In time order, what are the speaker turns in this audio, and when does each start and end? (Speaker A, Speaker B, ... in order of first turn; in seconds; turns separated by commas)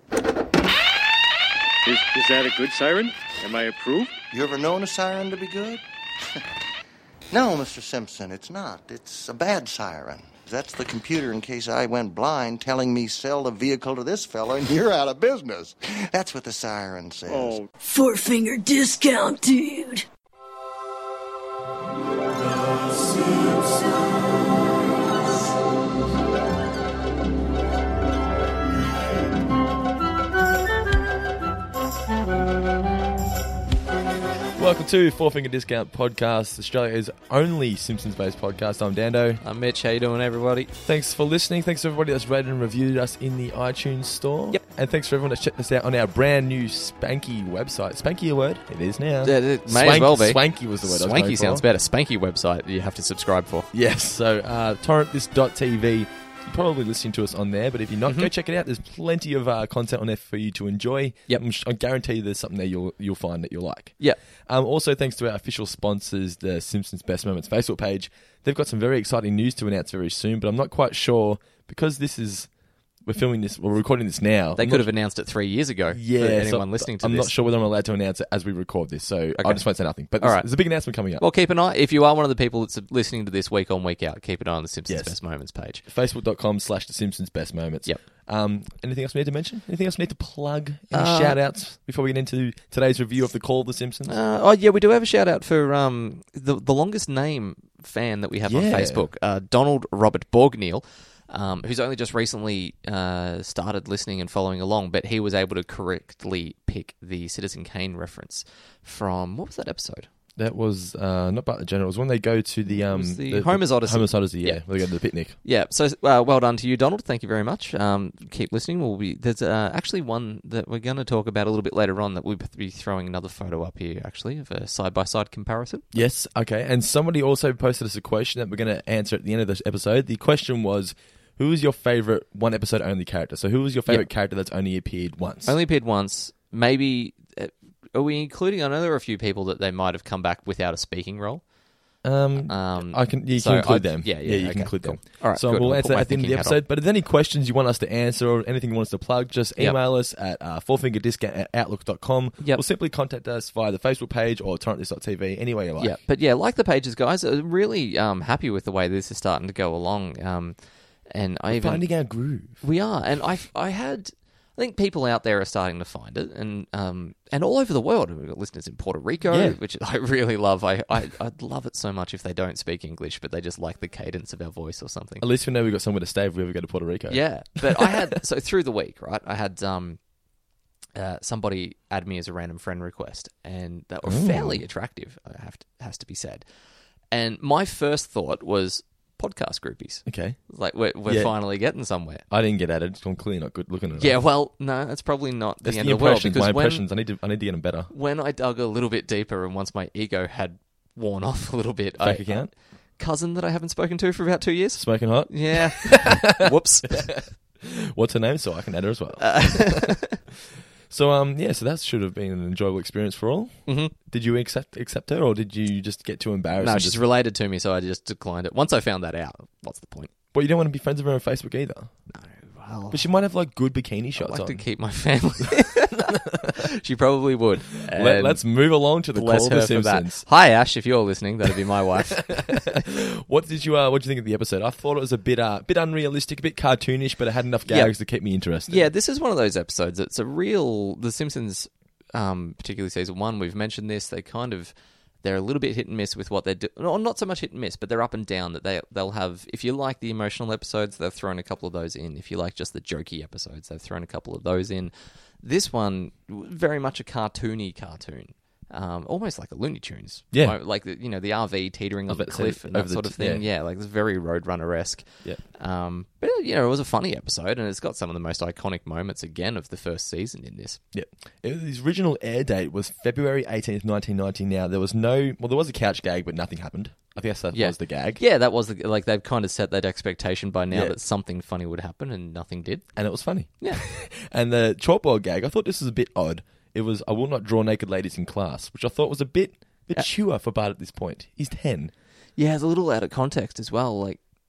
Speaker A: 1.8-4.1, Speaker B: 4.3-5.8, Speaker B: 7.3-17.6, Speaker A: 17.3-17.7, Speaker C: 17.8-20.1, Speaker D: 34.5-39.4, Speaker E: 39.4-40.7, Speaker D: 40.8-51.6, Speaker E: 49.2-53.7, Speaker D: 53.7-63.9, Speaker D: 64.5-72.5, Speaker D: 73.0-74.9, Speaker E: 74.6-77.3, Speaker D: 75.9-81.2, Speaker E: 79.4-85.8, Speaker D: 84.9-85.2, Speaker D: 85.8-94.2, Speaker E: 90.9-91.4, Speaker E: 94.0-110.1, Speaker D: 98.5-99.1, Speaker D: 110.4-115.3, Speaker E: 112.7-114.6, Speaker E: 115.4-125.8, Speaker D: 125.9-135.6, Speaker E: 135.4-141.4, Speaker D: 142.0-155.9, Speaker E: 142.4-146.6, Speaker E: 155.8-160.6, Speaker E: 161.1-161.9, Speaker D: 161.5-162.6, Speaker E: 162.6-175.2, Speaker D: 169.3-169.6, Speaker D: 175.2-178.0, Speaker E: 177.1-180.0, Speaker E: 180.9-186.4, Speaker D: 184.0-184.6, Speaker E: 187.1-192.2, Speaker D: 190.1-190.4, Speaker D: 191.1-191.3, Speaker D: 192.3-194.2, Speaker E: 194.0-196.8, Speaker D: 195.6-197.9, Speaker E: 197.9-207.2, Speaker D: 202.0-202.5, Speaker D: 204.8-206.4, Speaker D: 207.0-210.0, Speaker E: 209.2-210.2, Speaker D: 210.9-217.0, Speaker E: 213.7-213.9, Speaker E: 216.6-220.1, Speaker D: 220.3-221.9, Speaker E: 222.1-223.0, Speaker D: 222.9-224.6, Speaker E: 224.2-228.4, Speaker D: 227.8-230.2, Speaker E: 229.1-232.8, Speaker D: 232.2-238.9, Speaker E: 237.7-237.9, Speaker E: 238.7-270.8, Speaker D: 260.3-260.6, Speaker D: 262.1-263.4, Speaker D: 270.9-278.2, Speaker E: 277.5-282.9, Speaker D: 280.7-280.9, Speaker D: 282.9-291.9, Speaker E: 292.4-294.2